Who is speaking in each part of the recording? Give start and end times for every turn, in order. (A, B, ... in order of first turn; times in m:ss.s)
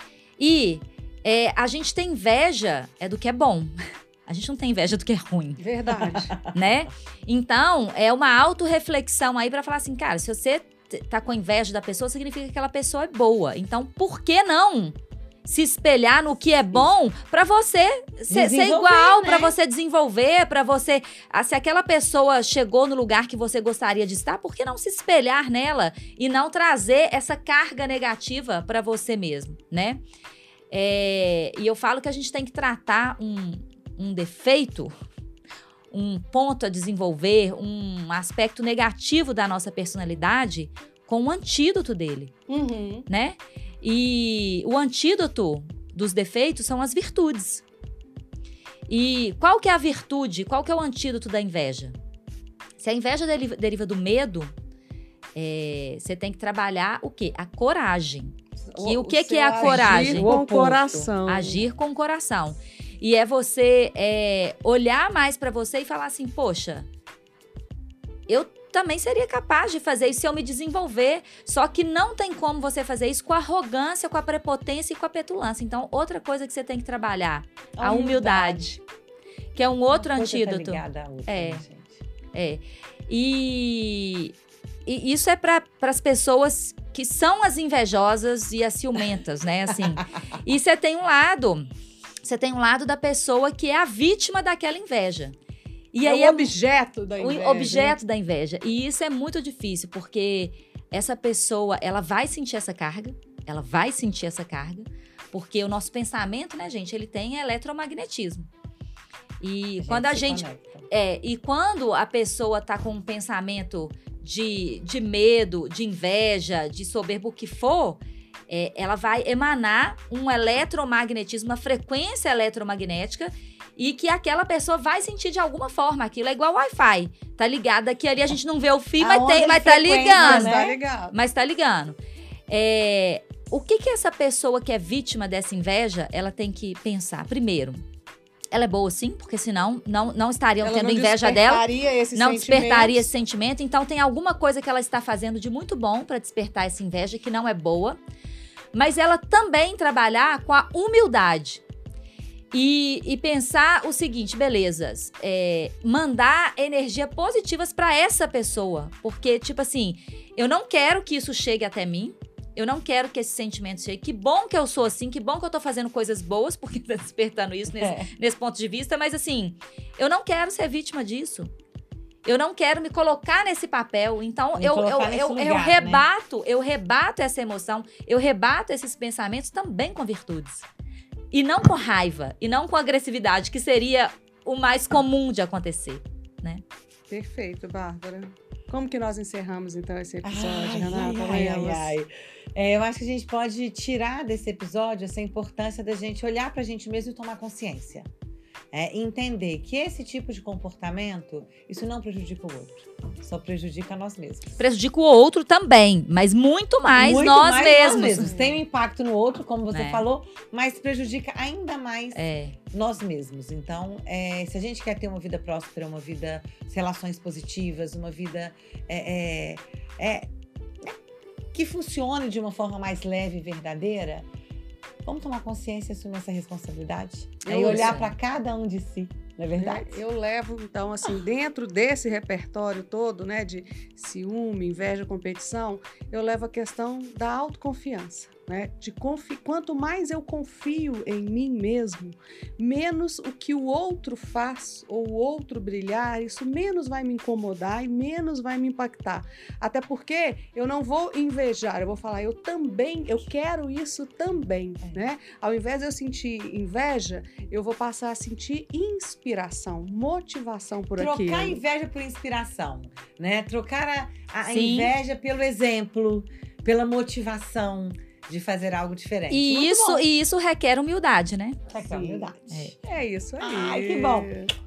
0:00.4-0:05.6 A
0:05.6-0:06.3 B
0:06.0-0:06.5 C
0:06.5-0:30.0 A
0:18.3-0:19.6 C
0:30.7-0:34.9 A
0:35.9-0:42.3 A
0:42.5-0:43.1 B
0:43.1-0:47.6 A
0:48.9-0:52.0 A
0:52.8-0:54.5 A
0:55.3-1:00.3 A
0:58.7-1:01.1 C
0:59.0-1:01.7 B
1:01.2-1:06.9 A
1:08.3-1:18.8 A
1:17.8-1:18.7 C
1:19.5-1:21.6 A
1:19.9-1:22.0 C
1:22.3-1:24.3 A
1:24.8-1:31.7 A
1:32.2-1:35.4 A
1:35.9-1:36.5 A
1:36.0-1:38.0 B
1:37.2-1:48.5 A
1:49.4-2:12.0 A
1:49.8-1:50.9 C
2:09.0-2:10.8 C
2:10.0-2:11.1 B
2:12.5-2:17.8 A
2:18.5-2:28.0 A
2:20.6-2:23.1 B
2:28.7-2:31.6 A
2:32.5-2:51.5 A
2:47.8-2:48.1 C
2:52.2-3:00.6 A
2:54.6-2:56.1 C
3:01.3-3:06.6 A
3:07.1-3:12.0 B
3:10.2-3:18.1 C
3:18.7-3:24.5 C
3:24.6-3:28.3 A
3:26.9-3:40.3 C
3:27.9-3:28.6 B
3:29.7-3:30.1 A
3:32.1-3:32.6 A
3:41.5-3:44.3 C
3:45.0-3:50.0 C
3:47.4-3:48.0 B
3:47.6-3:48.1 A
3:49.6-4:21.6 B
4:21.0-4:30.0 C
4:24.4-4:24.9 A
4:29.3-4:31.6 A
4:31.7-4:32.7 C
4:31.8-4:32.3 B
4:32.8-4:34.5 B
4:33.4-4:34.3 C